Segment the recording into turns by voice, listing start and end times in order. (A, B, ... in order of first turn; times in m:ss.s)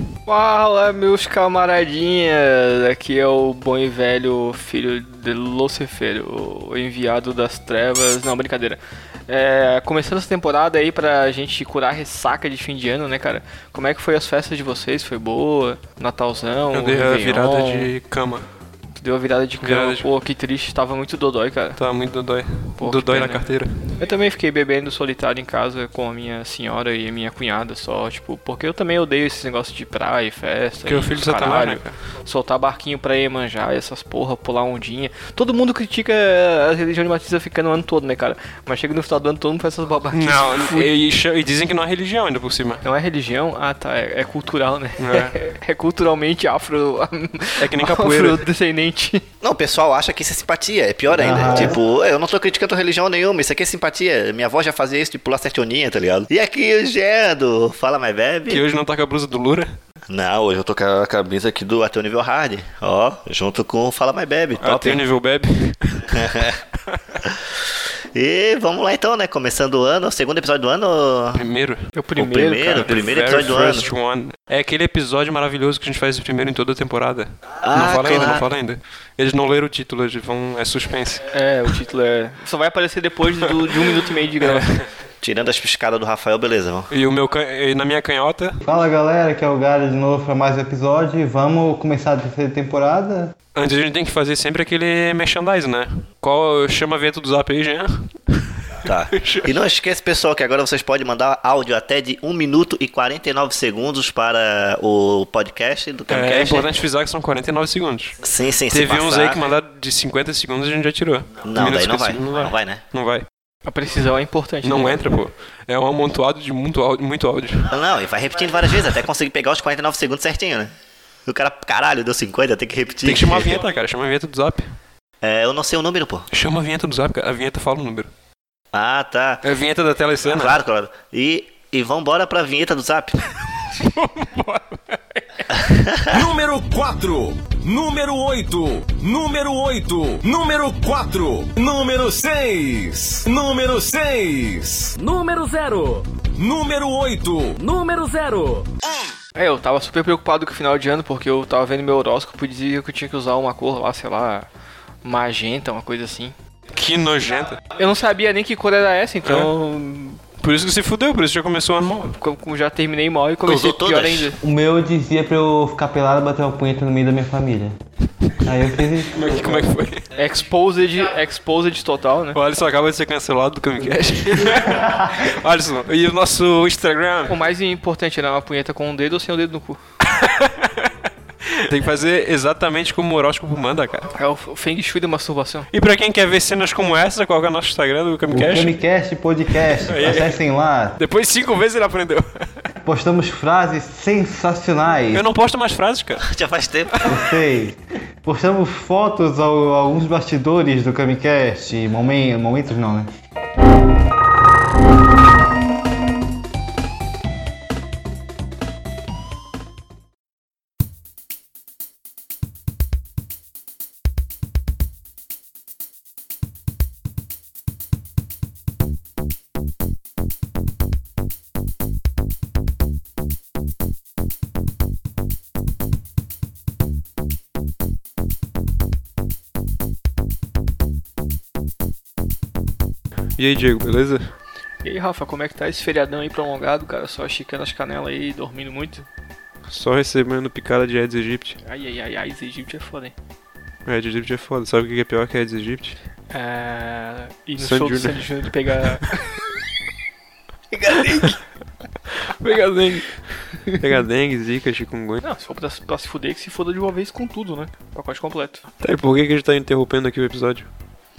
0:00.3-0:17.9 A
0:16.7-0:18.5 B
0:19.0-0:21.8 A
0:19.6-0:20.1 B
0:21.8-0:23.8 B
0:22.8-0:23.5 A
0:24.0-0:40.9 A
0:30.9-0:32.0 B
0:40.1-0:42.8 B
0:42.8-0:49.2 A
0:45.0-0:45.3 B
0:47.6-0:48.4 B
0:49.4-0:58.6 C
0:51.1-0:51.8 D
0:58.5-0:59.8 B
1:00.1-1:05.0 C
1:04.6-1:06.2 B
1:06.1-1:06.6 C
1:08.2-1:11.4 C
1:11.4-1:11.8 B
1:11.9-1:13.2 A
1:12.2-1:13.9 C
1:12.8-1:21.3 B
1:17.6-1:18.5 C
1:21.3-1:24.8 A
1:24.4-1:24.8 B
1:25.2-1:26.9 C
1:26.9-1:28.6 B
1:28.6-1:33.3 D
1:33.6-1:38.5 B
1:38.9-1:46.7 C
1:39.1-1:39.6 B
1:46.1-1:48.2 B
1:48.2-1:49.4 C
1:48.7-1:53.2 B
1:51.4-1:52.8 C
1:53.7-1:55.1 A
1:54.6-1:57.7 B
1:57.7-2:00.7 C
2:01.3-2:03.6 C
2:03.0-2:04.7 B
2:05.2-2:06.3 C
2:06.3-2:08.1 B
2:08.7-2:09.4 C
2:09.4-2:10.6 B
2:10.2-2:13.1 C
2:14.2-2:15.2 A
2:15.6-2:16.1 C
2:16.1-2:25.0 E
2:25.0-2:26.1 F
2:26.4-2:27.6 E
2:27.6-2:28.7 F
2:29.4-2:34.5 A
2:35.0-2:36.4 A
2:36.8-2:37.6 B
2:37.8-2:40.2 A
2:39.2-2:39.5 B
2:40.4-2:42.1 B
2:42.1-2:44.4 A
2:43.5-2:44.3 C
2:44.4-2:47.7 D
2:48.4-2:49.6 D
2:49.1-2:50.0 B
2:50.2-2:52.4 A
2:52.3-2:57.4 B
2:54.8-2:55.1 D
2:57.3-2:59.8 A
3:00.0-3:00.9 B
3:01.4-3:04.1 B
3:04.2-3:05.7 A
3:05.7-3:08.8 B
3:08.3-3:11.0 D
3:09.5-3:10.4 B
3:11.0-3:12.7 B
3:12.9-3:15.2 D
3:15.1-3:16.2 B
3:16.2-3:17.2 C
3:17.1-3:23.1 D
3:53.4-3:54.3 B
3:54.8-3:59.0 A
3:59.7-4:01.6 B
4:01.6-4:03.2 A
4:03.9-4:06.0 B
4:06.3-4:09.2 A
4:07.6-4:08.3 B
4:10.7-4:11.4 A
4:10.9-4:11.4 B
4:12.3-4:15.2 B
4:15.2-4:18.6 A
4:18.8-4:20.7 B